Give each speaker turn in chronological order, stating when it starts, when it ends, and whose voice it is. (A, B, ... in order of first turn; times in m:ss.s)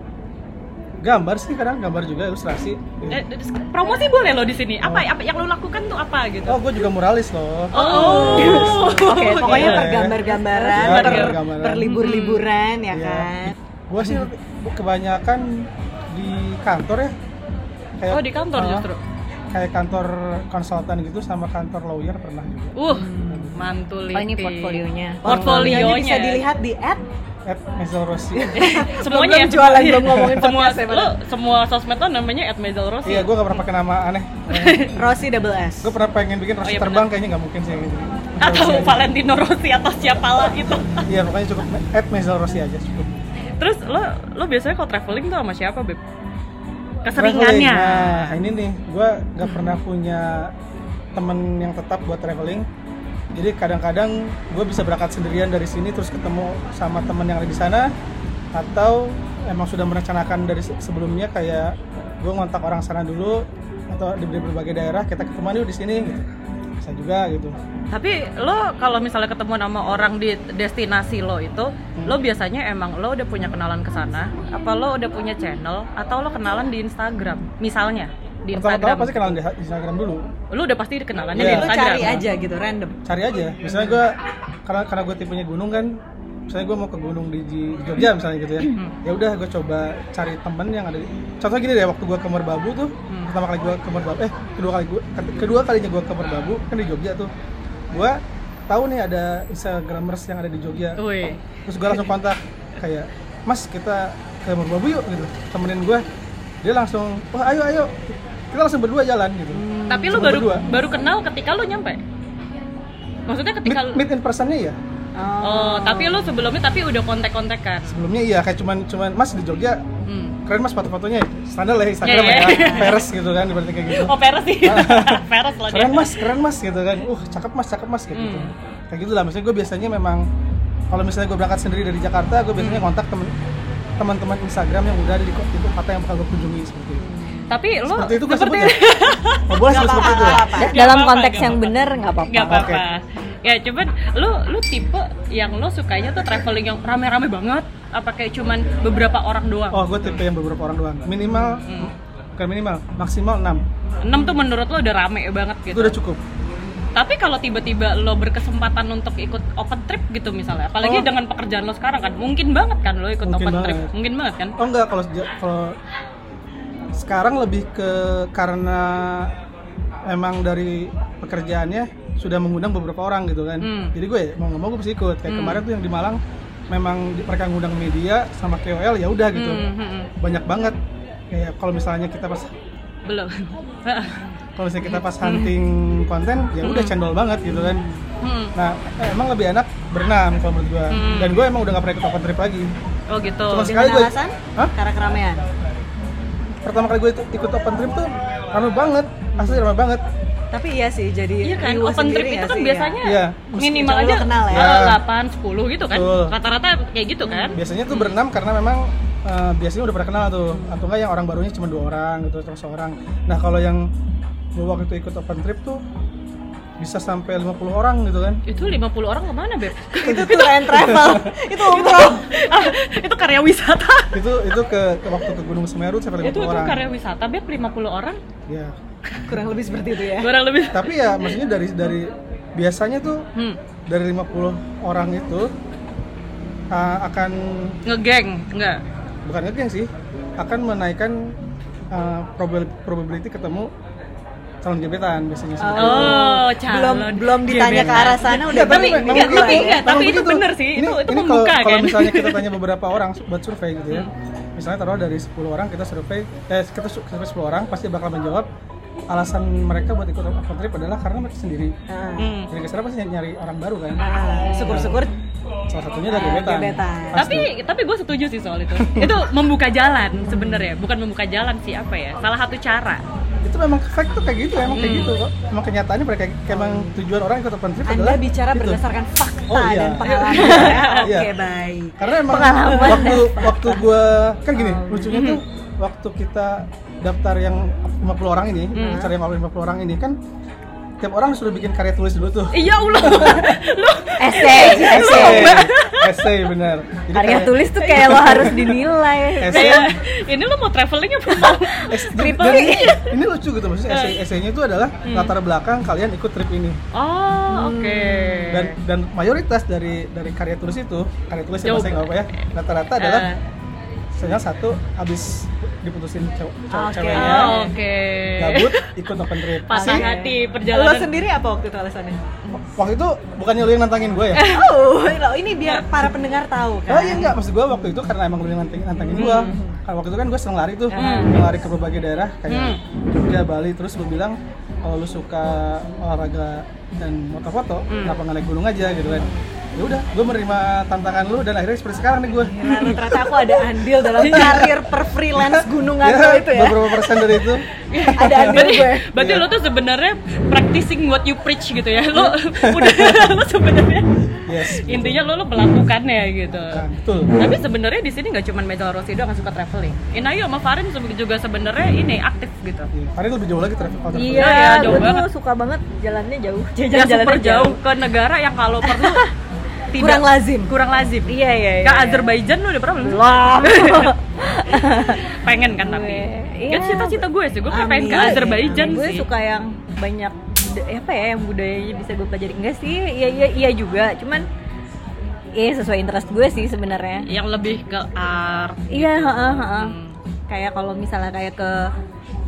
0:01.0-0:03.2 A
0:03.1-0:06.7 B
0:04.8-0:05.1 A
0:06.5-0:11.9 A
0:07.7-0:10.0 B
0:07.7-0:13.5 C
0:07.9-0:08.8 D
0:10.8-0:12.5 B
0:12.9-0:17.2 A
0:18.0-0:18.9 A
0:18.1-0:19.0 B
0:19.5-0:22.8 A
0:22.8-0:26.4 B
0:23.3-0:23.6 A
0:24.1-0:25.2 D
0:25.2-0:27.0 C
0:25.3-0:25.7 A
0:27.5-0:28.5 A
0:28.4-0:31.1 C
0:28.5-0:33.3 B
0:33.0-0:34.9 A
0:34.5-0:35.0 B
0:34.9-0:35.9 C
0:35.8-0:39.1 A
0:36.6-0:37.1 B
0:38.4-0:41.1 B
0:41.1-0:43.2 A
0:43.6-0:46.0 B
0:47.0-0:48.4 B
0:47.2-0:50.5 A
0:51.2-0:52.7 A
0:53.3-0:57.9 A
0:58.5-1:06.3 A
1:06.8-1:07.6 A
1:07.9-1:19.4 B
1:18.5-1:20.3 A
1:20.5-1:22.2 B
1:21.4-1:22.2 A
1:21.4-1:23.0 C
1:23.0-1:37.3 A
1:33.1-1:33.4 B
1:37.9-1:41.0 A
1:41.0-1:42.0 B
1:41.7-1:46.0 A
1:46.6-1:50.7 A
1:49.6-1:50.2 C
1:49.9-1:52.0 B
1:53.3-1:54.0 B
1:53.6-1:54.8 A
1:55.2-1:56.1 C
1:55.4-1:58.0 B
1:57.9-1:59.8 A
2:00.1-2:00.4 B
2:00.5-2:10.2 A
2:02.0-2:03.0 B
2:02.4-2:02.9 C
2:03.9-2:06.3 B
2:08.1-2:08.5 B
2:10.9-2:13.3 A
2:12.6-2:12.9 B
2:14.0-2:17.1 A
2:17.0-2:17.5 C
2:17.5-2:30.2 B
2:17.8-2:18.9 A
2:19.5-2:20.6 A
2:19.7-2:20.8 C
2:20.6-2:22.6 D
2:22.3-2:22.8 A
2:29.7-2:33.6 A
2:31.5-2:31.9 B
2:34.0-2:36.0 B
2:35.7-2:36.2 A
2:37.0-2:44.6 B
2:40.8-2:41.1 A
2:43.2-2:43.9 A
2:44.6-2:45.8 A
2:46.9-2:49.3 A
2:50.1-2:56.2 A
2:53.6-2:54.0 B
2:55.3-2:55.6 B
2:56.7-2:59.7 A
2:59.3-3:00.1 B
3:00.2-3:00.8 A
3:01.3-3:02.5 A
3:03.1-3:04.3 B
3:04.6-3:07.8 A
3:04.8-3:05.6 B
3:06.6-3:07.0 B
3:08.2-3:08.5 B
3:08.6-3:12.7 A
3:10.9-3:11.4 B
3:13.1-3:13.8 B
3:13.5-3:14.7 A
3:13.6-3:15.4 C
3:16.6-3:20.0 A
3:20.5-3:23.0 C
3:21.4-3:28.2 B
3:23.0-3:23.8 A
3:23.6-3:24.8 C
3:24.5-3:25.0 A
3:25.9-3:26.4 A
3:27.2-3:27.6 C
3:27.5-3:33.9 A
3:34.6-3:35.8 A
3:36.8-3:38.4 A
3:38.5-3:44.2 B
3:40.0-3:42.3 C
3:40.8-3:41.3 A
3:44.1-3:46.8 A
3:46.2-3:48.2 B
3:48.5-3:48.7 A
3:49.3-3:50.3 C
3:50.2-3:51.1 B
3:50.7-3:53.3 A
3:53.9-3:55.5 A
3:56.7-3:57.8 A
3:57.9-3:58.8 B
3:59.2-4:01.4 A
4:01.9-4:03.7 A
4:04.6-4:06.2 A
4:05.6-4:10.1 C
4:05.8-4:12.4 B
4:07.5-4:18.5 A
4:19.1-4:21.8 A
4:21.9-4:22.3 C
4:22.2-4:22.5 B
4:22.5-4:24.0 A
4:24.0-4:25.1 C
4:24.6-4:25.0 A
4:25.7-4:27.5 A
4:26.1-4:27.2 C
4:27.2-4:33.0 B
4:28.8-4:29.2 A
4:30.2-4:30.7 C
4:33.4-4:38.8 A
4:34.7-4:35.2 B
4:36.5-4:36.9 C
4:37.9-4:42.0 C
4:39.5-4:41.3 A
4:40.0-4:41.1 B
4:42.0-4:50.2 A
4:42.2-4:43.8 D
4:42.6-4:43.3 C
4:45.1-4:45.4 B
4:48.8-4:49.1 B
4:48.8-4:49.1 C
4:51.0-4:53.6 A
4:52.5-4:56.3 B
4:54.2-4:55.7 D
4:54.5-4:55.2 C
4:54.8-4:58.8 A
4:57.1-4:59.9 D
4:57.9-4:58.2 B
4:59.4-4:59.9 A
4:59.4-5:03.0 B
5:01.3-5:03.0 D
5:01.9-5:06.8 A
5:03.9-5:04.2 B
5:05.0-5:05.3 B
5:06.9-5:08.8 B
5:07.7-5:08.4 D
5:07.9-5:08.2 C
5:08.5-5:13.3 A
5:11.6-5:12.1 B
5:13.0-5:13.4 B
5:14.1-5:17.6 A
5:16.7-5:17.7 C
5:17.1-5:18.9 B
5:18.4-5:20.1 A
5:19.7-5:21.1 B
5:19.7-5:22.2 C
5:22.5-5:24.5 A
5:24.4-5:27.4 C
5:26.9-5:43.2 A
5:29.2-5:29.8 C
5:29.2-5:29.5 B
5:31.0-5:31.4 B
5:31.0-5:31.2 C
5:32.5-5:32.8 B
5:37.9-5:38.2 B
5:39.1-5:39.4 C
5:42.5-5:47.2 C
5:44.2-5:44.8 A
5:44.3-5:44.6 B
5:45.3-5:49.4 A
5:47.9-5:54.1 B
5:48.2-5:49.1 C
5:52.6-5:53.2 A
5:54.4-5:55.2 A
5:54.7-5:56.8 B
5:56.6-5:57.3 A
5:57.4-6:02.9 B
6:02.9-6:04.9 A
6:04.1-6:07.8 D
6:04.3-6:05.3 B
6:06.9-6:09.3 B
6:09.9-6:14.1 B
6:10.0-6:10.7 C
6:11.3-6:12.3 D
6:13.0-6:15.2 D
6:14.7-6:19.3 B
6:15.8-6:17.2 D
6:17.7-6:19.0 C
6:18.0-6:24.5 D
6:25.6-6:27.3 D
6:27.2-6:30.2 B
6:28.9-6:30.0 D
6:30.5-6:31.9 D